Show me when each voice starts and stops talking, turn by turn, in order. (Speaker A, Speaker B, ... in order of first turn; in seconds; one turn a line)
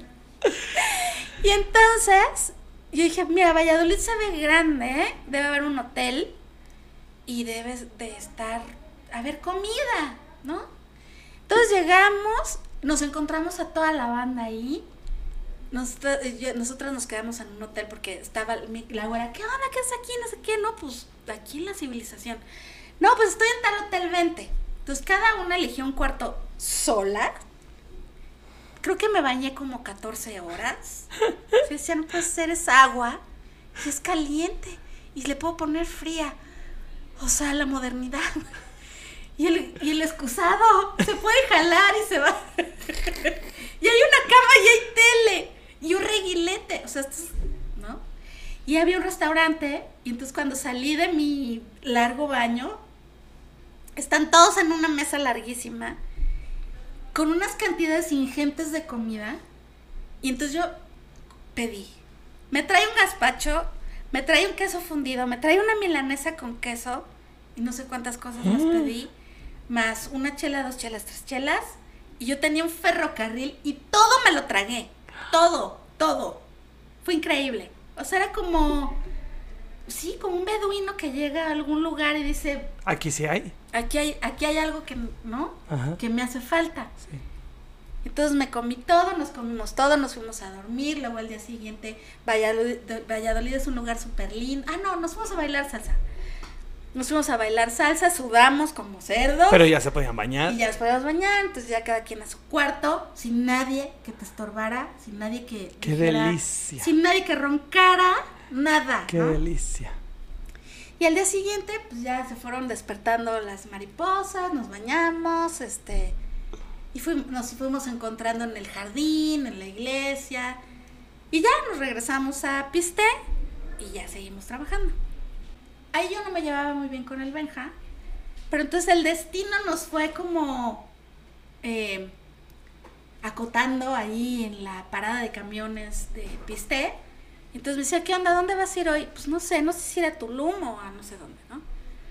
Speaker A: 0.7-6.3
Speaker A: 7.2-10.7
Speaker A: 11.5-14.8
Speaker A: 15.7-22.4
Speaker A: 23.0-27.3
Speaker A: 28.8-33.2
Speaker A: 33.8-36.4
Speaker A: 37.2-38.5
Speaker A: 39.4-48.0
Speaker A: 48.6-52.8
Speaker A: 54.0-56.0
Speaker A: 57.1-59.4
Speaker A: 60.2-60.7
Speaker A: 61.5-69.1
Speaker B: 68.4-68.9
Speaker A: 69.7-76.5
Speaker A: 77.0-79.0
Speaker A: 79.9-82.7
Speaker B: 82.8-83.5
Speaker A: 83.7-86.9
Speaker B: 85.7-86.0
Speaker A: 88.0-96.0
Speaker A: 96.9-99.7
Speaker B: 99.5-100.6
Speaker A: 100.5-109.4
Speaker B: 105.8-106.9
Speaker B: 109.1-110.0
Speaker A: 111.0-116.2
Speaker A: 116.9-120.6
Speaker A: 121.3-123.1
Speaker A: 123.8-125.0
Speaker A: 125.9-127.7
Speaker A: 128.5-130.9
Speaker A: 131.6-132.1
Speaker A: 133.2-137.0
Speaker A: 137.5-141.6